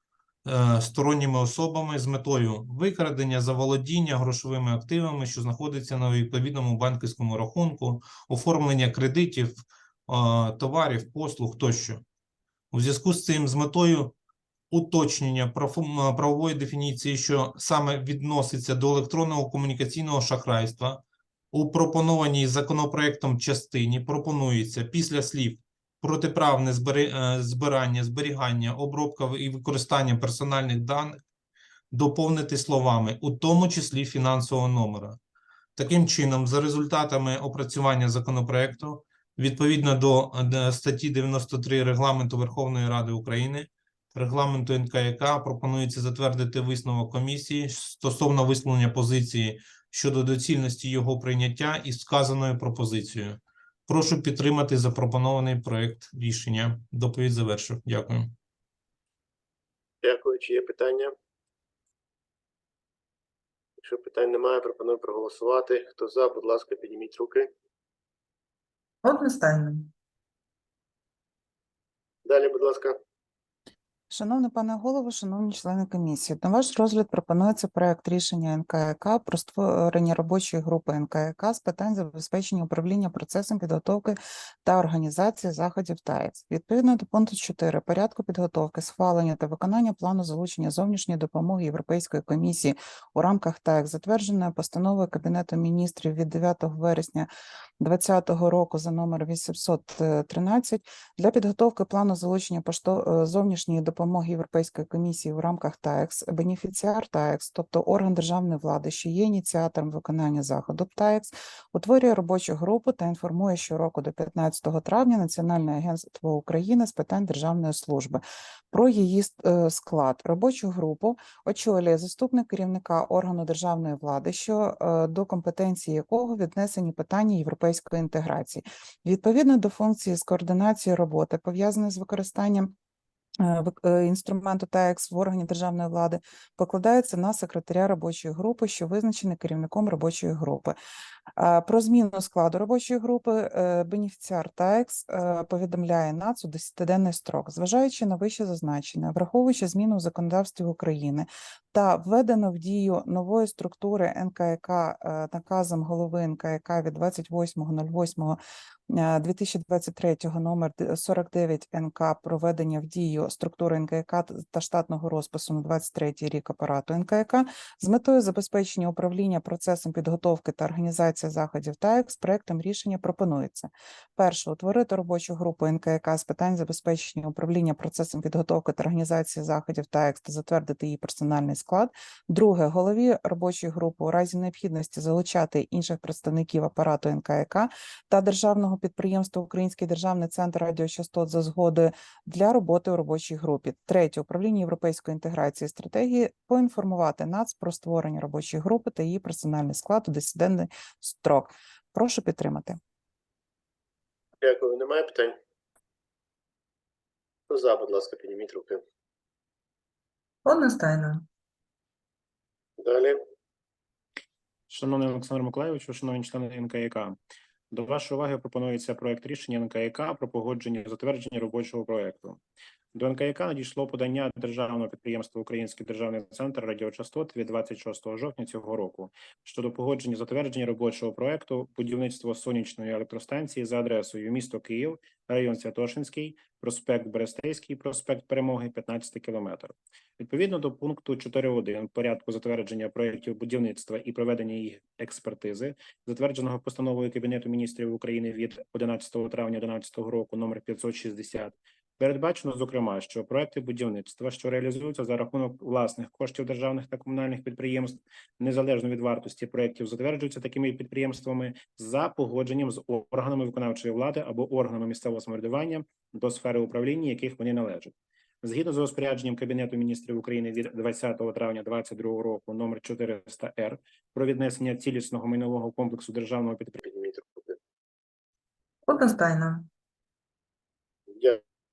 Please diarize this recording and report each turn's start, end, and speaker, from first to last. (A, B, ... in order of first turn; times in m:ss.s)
0:00.4-0:12.0 A
0:12.7-0:14.2 A
0:14.7-0:31.2 A
0:31.9-0:35.2 A
0:35.8-0:58.3 A
1:00.0-1:01.1 B
1:03.8-1:07.5 B
1:09.0-1:09.9 C
1:12.2-1:13.0 B
1:14.1-2:12.7 D
2:13.4-2:20.7 D
2:21.4-3:22.8 D
3:24.4-3:25.3 B
3:27.5-3:28.8 B
3:30.4-3:31.2 C
3:32.8-3:33.2 B
3:34.7-3:37.2 E
3:37.7-3:42.4 E
3:42.9-4:36.9 E
4:36.8-4:37.6 B
4:38.8-4:39.7 C